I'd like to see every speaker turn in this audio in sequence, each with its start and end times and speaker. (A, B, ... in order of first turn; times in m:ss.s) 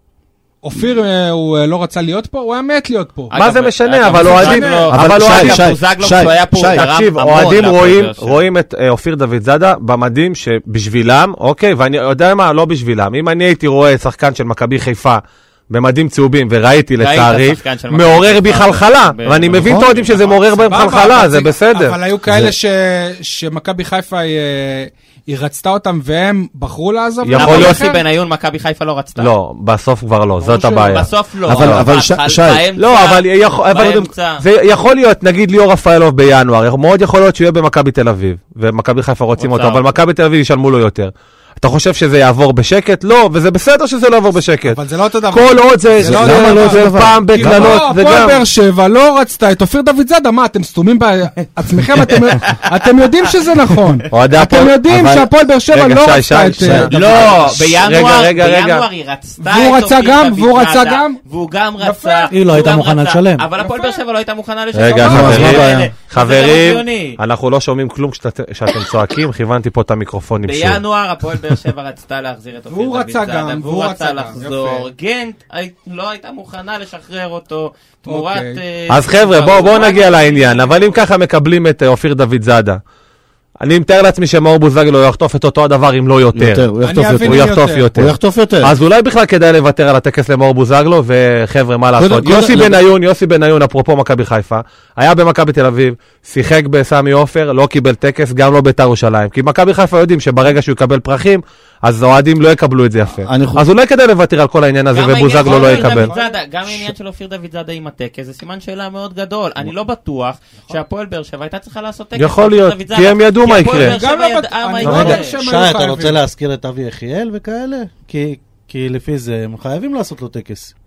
0:00.6-0:03.3 A
0:03.3-0:08.4 B
0:03.3-0:05.6 C
0:04.1-0:04.9 A
0:04.9-0:06.8 D
0:06.7-0:22.0 C
0:17.0-0:20.5 B
0:19.6-0:19.9 D
0:20.2-0:28.0 A
0:22.3-0:22.5 D
0:27.2-0:27.8 C
0:27.3-0:29.3 B
0:29.2-0:31.9 C
0:30.4-0:31.1 A
0:30.8-0:34.4 B
0:31.4-0:32.6 D
0:32.8-0:48.4 C
0:33.7-0:34.1 D
0:39.4-0:39.8 B
0:44.6-0:57.3 A
0:46.0-0:47.8 D
0:54.1-0:58.8 C
0:56.9-1:07.2 B
0:59.4-1:01.2 A
1:01.8-1:02.3 A
1:02.3-1:03.5 E
1:03.6-1:04.0 A
1:04.7-1:10.8 C
1:05.0-1:05.9 D
1:10.4-1:21.0 B
1:12.7-1:14.9 A
1:18.0-1:18.6 A
1:18.9-1:22.8 C
1:23.6-1:26.7 C
1:26.3-1:28.7 D
1:26.8-1:27.9 A
1:27.2-1:46.1 C
1:32.0-1:32.8 D
1:43.2-1:43.7 D
1:44.9-1:55.4 B
1:45.4-1:46.4 A
1:52.2-1:54.0 C
1:53.6-1:56.2 A
1:54.8-2:00.7 E